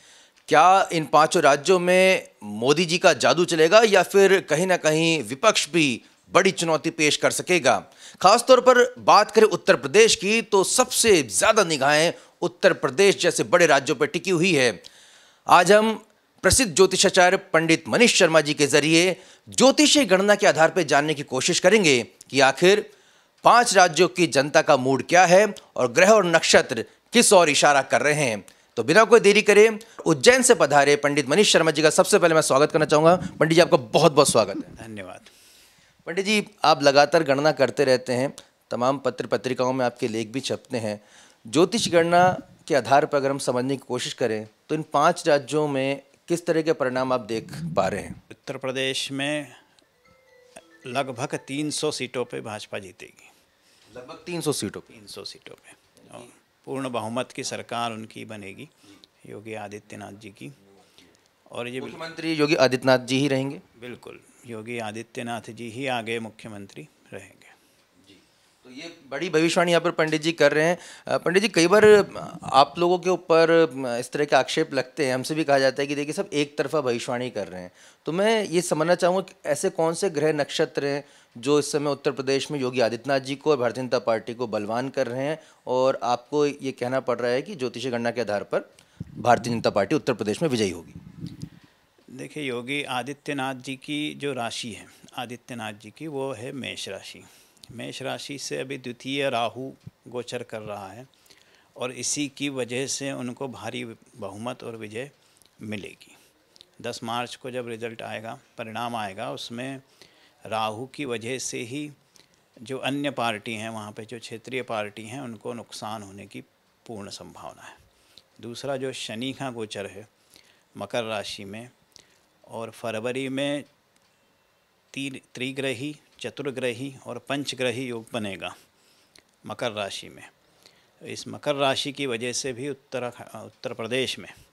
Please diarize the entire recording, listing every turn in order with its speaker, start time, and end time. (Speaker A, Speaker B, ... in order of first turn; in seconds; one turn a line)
Speaker A: 0.5-14.8
Speaker A: 15.5-22.9
Speaker A: 23.4-34.7
Speaker B: 34.8-35.3
Speaker A: 36.1-48.2
Speaker B: 48.3-49.6
Speaker B: 50.9-53.3
Speaker A: 53.9-54.9
Speaker B: 54.9-60.6
Speaker B: 61.5-62.0
Speaker A: 61.8-63.6
Speaker B: 63.8-67.6
Speaker A: 68.1-88.7
Speaker A: 89.2-91.0
Speaker B: 92.1-101.1
Speaker B: 101.8-106.2
Speaker B: 106.8-109.8
Speaker B: 110.5-112.0
Speaker B: 112.6-117.8
Speaker B: 118.4-120.1
Speaker B: 120.8-121.7
Speaker B: 122.5-123.7
Speaker B: 124.9-128.6
Speaker B: 129.4-130.3
Speaker B: 131.0-134.3